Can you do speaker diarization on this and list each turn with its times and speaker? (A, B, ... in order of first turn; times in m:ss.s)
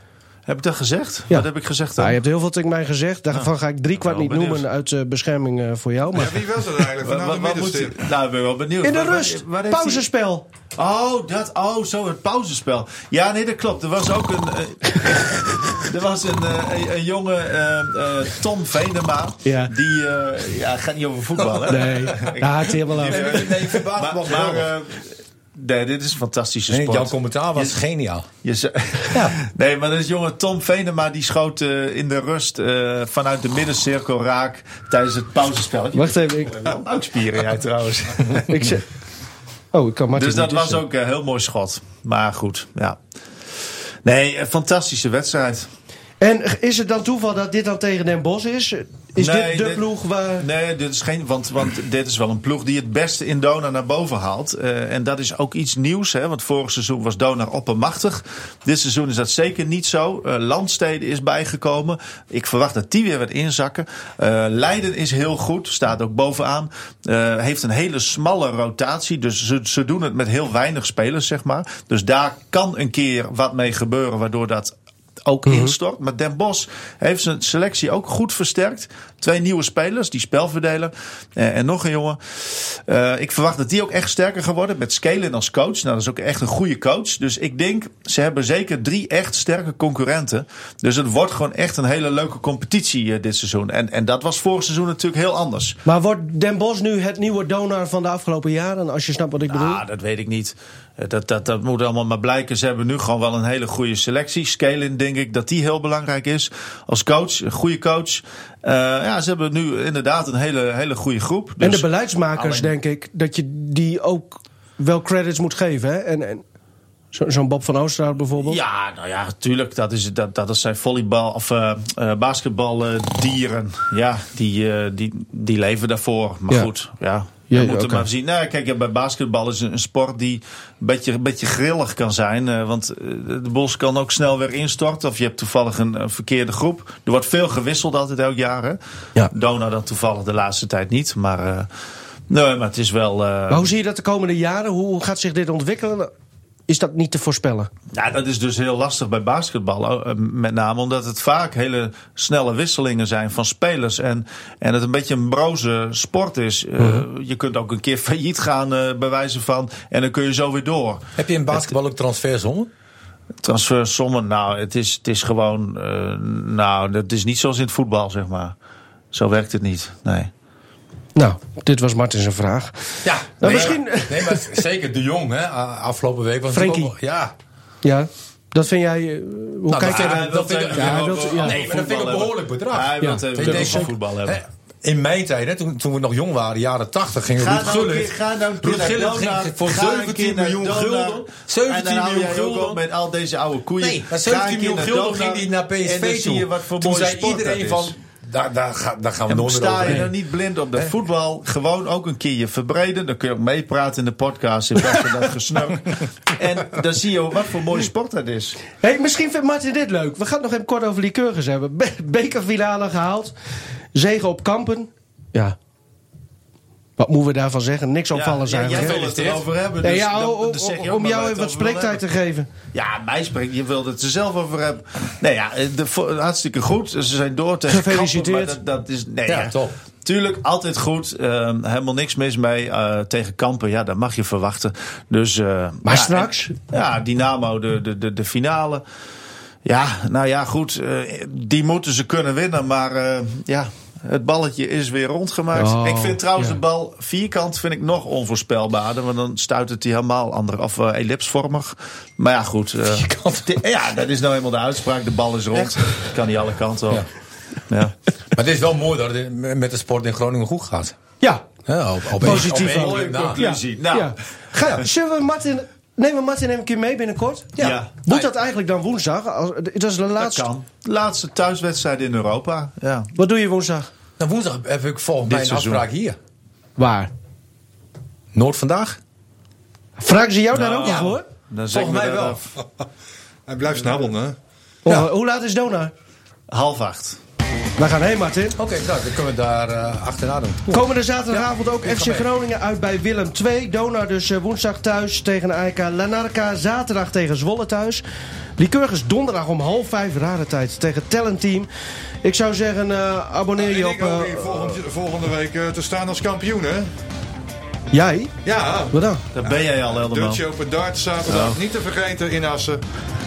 0:00.5-0:02.2 A
0:02.0-0:06.4 B
0:03.3-0:04.6 A
0:06.1-0:08.1 C
0:07.0-0:10.1 A
0:08.8-0:10.5 B
0:10.8-0:27.8 A
0:19.4-0:19.7 B
0:21.7-0:23.5 B
0:23.0-0:24.7 D
0:26.7-0:28.3 D
0:28.4-0:38.8 A
0:35.9-0:36.6 B
0:38.5-0:38.8 B
0:39.7-0:40.8 B
0:40.1-0:43.0 A
0:44.0-0:45.7 A
0:46.2-0:50.5 B
0:49.2-0:49.9 A
0:50.4-1:35.8 A
1:15.5-1:15.7 B
1:35.8-1:39.8 B
1:39.5-1:52.7 A
1:51.6-1:56.4 B
1:57.1-1:58.6 B
1:58.4-2:21.7 A
2:07.5-2:08.1 B
2:22.3-2:23.7 A
2:23.5-2:26.1 B
2:26.7-2:27.7 B
2:27.9-2:41.0 A
2:41.2-2:42.7 D
2:43.4-2:48.6 A
2:49.1-2:50.3 A
2:51.2-2:52.7 B
2:53.0-2:57.3 D
2:53.4-2:54.6 B
2:53.5-2:53.8 A
2:56.5-2:56.9 B
2:57.8-3:01.6 B
2:59.7-3:12.8 D
2:59.8-3:04.4 A
3:03.0-3:03.9 B
3:07.4-3:18.0 A
3:13.8-3:20.1 D
3:19.3-3:28.6 A
3:28.8-3:33.3 B
3:33.9-3:35.6 B
3:37.0-3:39.0 B
3:38.1-3:42.0 A
3:38.7-3:39.5 D
3:39.8-3:42.5 B
3:42.7-3:58.8 A
3:47.7-3:48.6 B
3:49.3-3:49.8 D
3:55.8-3:56.6 B
3:59.6-4:17.1 A
4:05.6-4:06.6 B
4:12.9-4:13.5 D
4:18.4-4:21.0 D
4:21.2-4:21.5 B
4:21.7-4:23.4 D
4:22.2-4:30.5 B
4:22.3-4:24.2 A
4:27.6-4:27.9 A
4:27.6-4:28.3 D
4:30.2-4:33.1 A
4:33.2-4:33.9 B
4:34.2-4:36.2 D
4:35.3-4:35.8 A
4:36.8-4:37.1 B
4:38.3-4:39.0 D
4:40.0-4:41.2 B
4:40.5-4:42.4 A
4:41.7-4:42.4 D
4:43.5-4:44.4 C
4:44.8-4:45.9 B
4:46.5-4:47.2 A
4:47.8-4:48.6 B
4:48.6-4:50.9 D
4:50.7-4:58.0 B
4:51.8-4:52.3 D
4:58.6-5:01.7 B
5:02.2-5:04.8 B
5:03.6-5:06.9 C
5:07.9-5:08.3 B
5:08.4-5:12.8 C
5:08.9-5:09.2 B
5:09.4-5:10.4 A
5:11.3-5:11.6 A